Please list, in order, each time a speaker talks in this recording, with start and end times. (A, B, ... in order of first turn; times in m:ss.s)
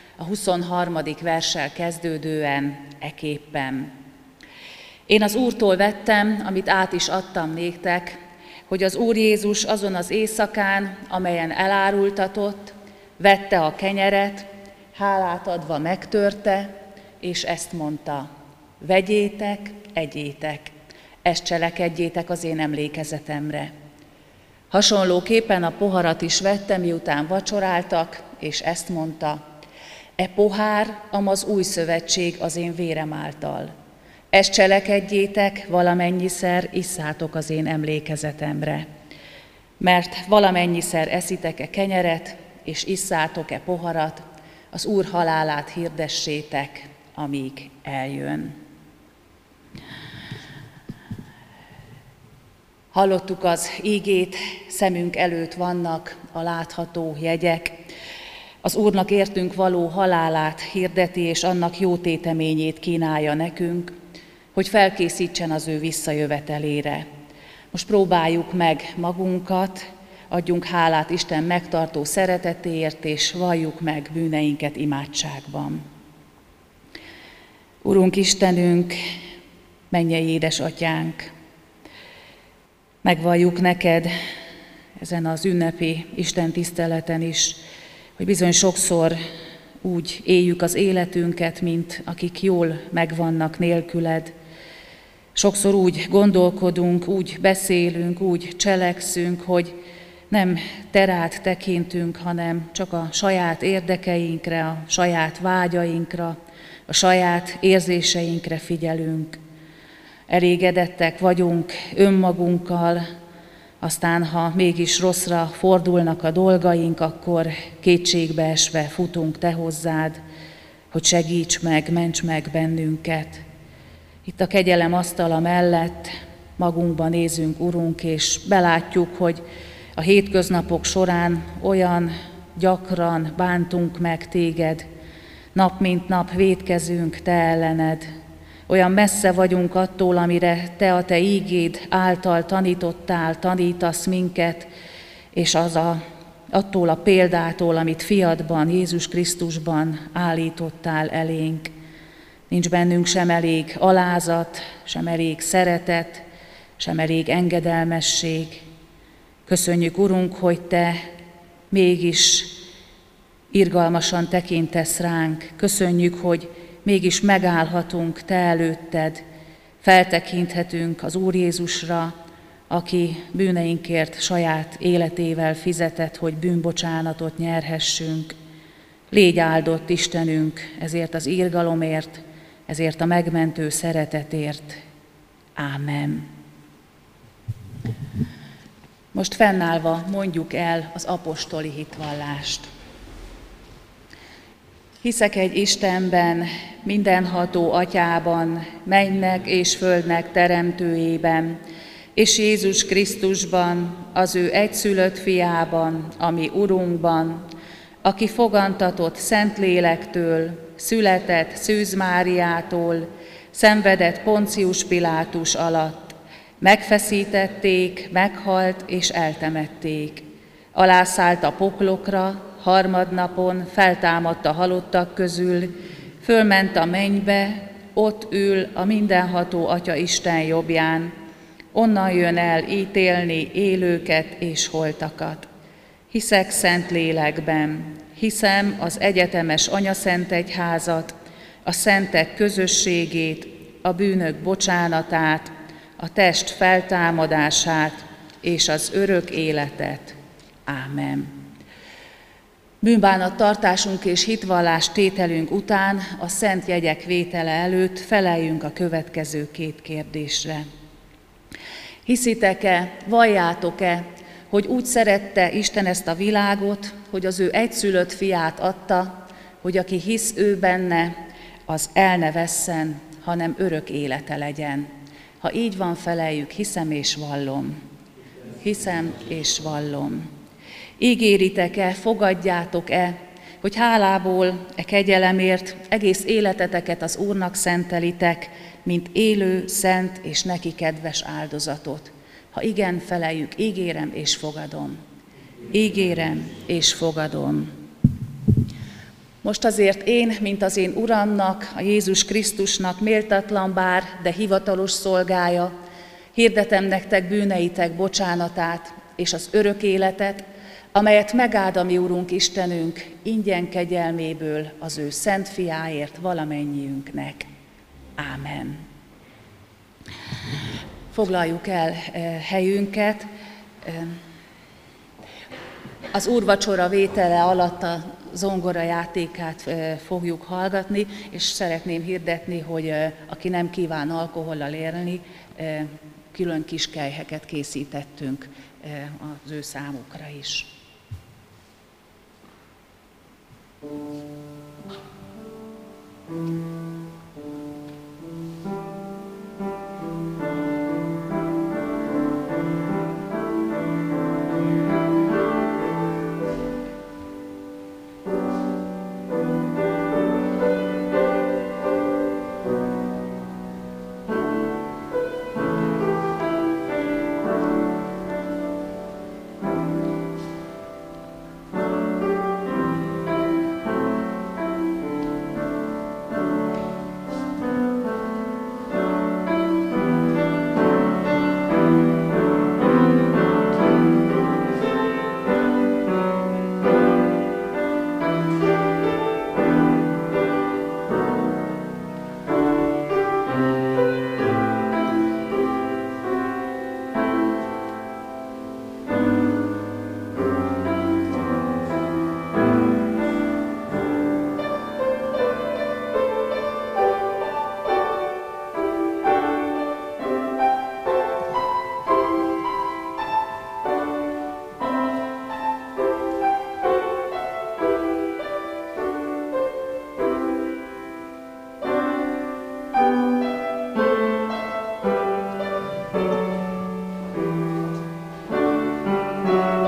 0:00.2-0:03.9 A
0:05.1-0:18.3 A
0:18.8-0:20.7 A
0:21.2-0:23.7 A
0:24.7-0:29.4 A
0:30.2-0:33.7 A
0:34.3-0:38.9 A
0:39.8-0:48.6 A
0:52.9-0:57.8 A
0:58.6-1:03.9 A
1:04.6-1:07.0 A
1:07.7-1:15.8 A
1:17.8-1:19.0 A
1:19.9-1:21.3 A
1:23.0-1:24.1 A
1:25.0-1:27.6 A
1:28.2-1:29.2 A
1:29.8-1:34.3 A
1:35.4-1:39.8 A
1:40.3-1:46.4 A
1:46.9-1:49.4 A
1:50.3-1:53.0 A
1:53.8-2:00.2 A
2:00.9-2:03.4 A
2:04.2-2:09.4 A
2:10.0-2:14.9 A
2:15.6-2:18.1 A
2:18.7-2:24.7 A
2:25.3-2:26.0 A
2:26.5-2:31.7 A
2:32.5-2:36.2 A
2:36.8-2:38.7 A
2:39.5-2:41.0 A
2:41.7-2:42.6 A
2:43.5-2:49.2 A
2:49.8-2:52.1 A
2:52.7-2:58.3 A
2:59.1-3:04.8 A
3:05.6-3:06.3 A
3:09.1-3:12.7 A
3:15.0-3:21.6 A
3:22.2-3:27.5 A
3:28.0-3:51.1 A
3:51.7-3:55.5 A
3:56.1-4:01.1 A
4:01.6-4:11.3 A
4:12.8-4:20.6 A
4:22.1-4:31.2 A
4:31.7-4:34.9 A
4:35.4-4:37.7 A
4:38.6-4:40.3 A
4:41.0-4:55.0 A
4:55.7-4:57.7 A
4:59.4-5:05.7 A
5:06.3-5:17.5 A
5:18.2-5:18.8 A
5:21.1-5:23.3 A
5:23.8-5:24.2 A
5:26.1-5:40.7 A